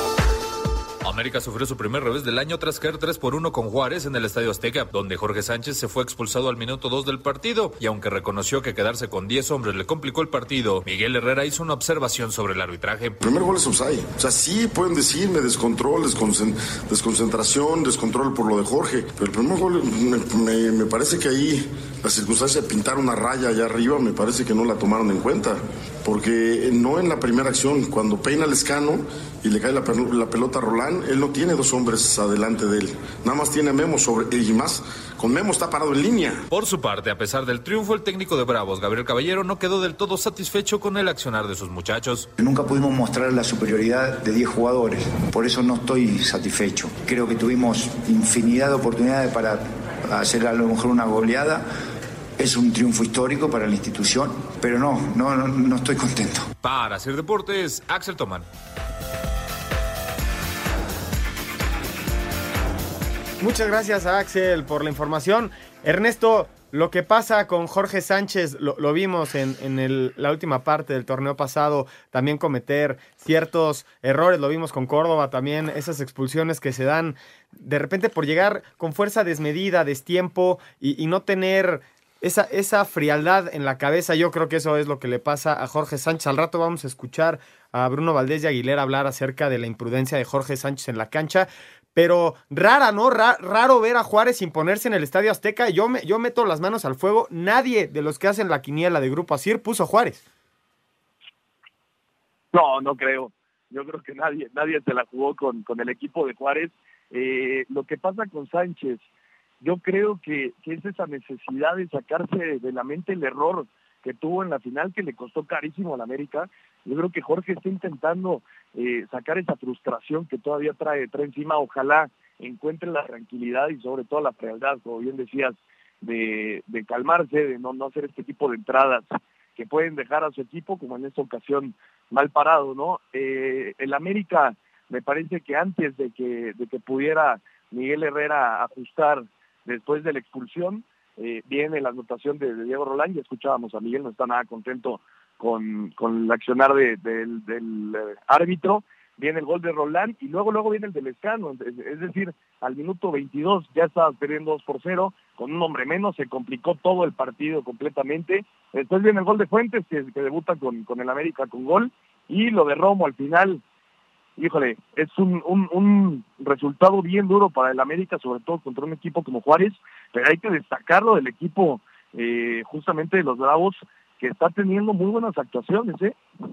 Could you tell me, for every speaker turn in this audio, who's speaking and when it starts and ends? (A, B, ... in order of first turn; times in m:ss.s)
0:01.0-0:13.2 A
0:13.2-0:36.4 B
0:36.5-0:42.3 A
0:42.4-0:51.7 C
0:52.4-0:56.5 C
0:56.6-0:58.5 A
1:03.4-1:40.2 D
1:42.5-1:49.0 E
1:49.6-2:09.0 E
2:09.6-2:43.6 E
2:44.4-2:56.1 E